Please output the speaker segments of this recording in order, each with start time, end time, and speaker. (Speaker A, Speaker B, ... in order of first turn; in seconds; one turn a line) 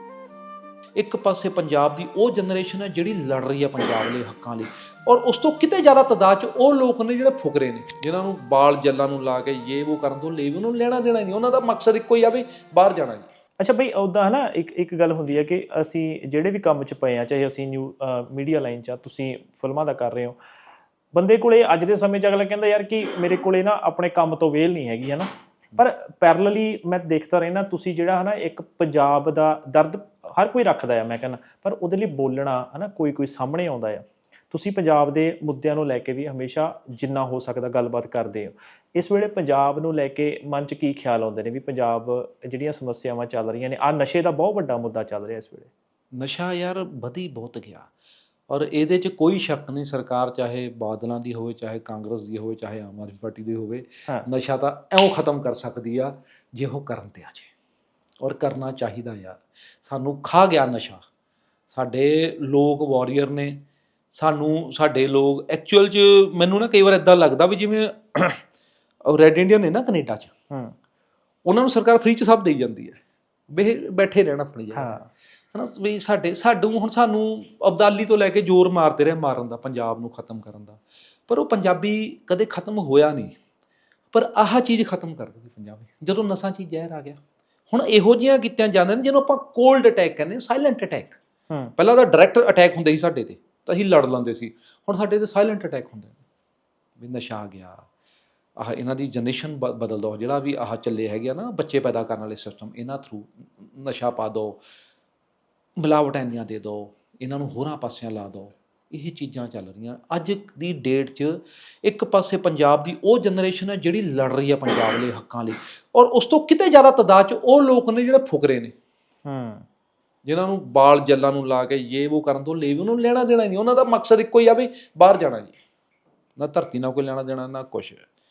Speaker A: 1.0-13.3
Speaker B: 13.6-20.4
Speaker B: 21.1-45.7
Speaker A: 46.1-47.9
Speaker A: 48.5-57.5
Speaker A: 58.2-61.0
Speaker A: 61.7-68.4
Speaker A: 69.0-70.3
Speaker A: 71.5-75.0
Speaker B: 74.7-75.1
Speaker A: 75.5-83.4
Speaker A: 84.1-91.2
Speaker A: 91.8-96.2
Speaker A: 97.0-97.8
Speaker A: 98.6-104.6
Speaker A: 105.8-118.7
Speaker B: 119.3-119.7
Speaker A: 120.2-125.5
Speaker A: 126.4-128.1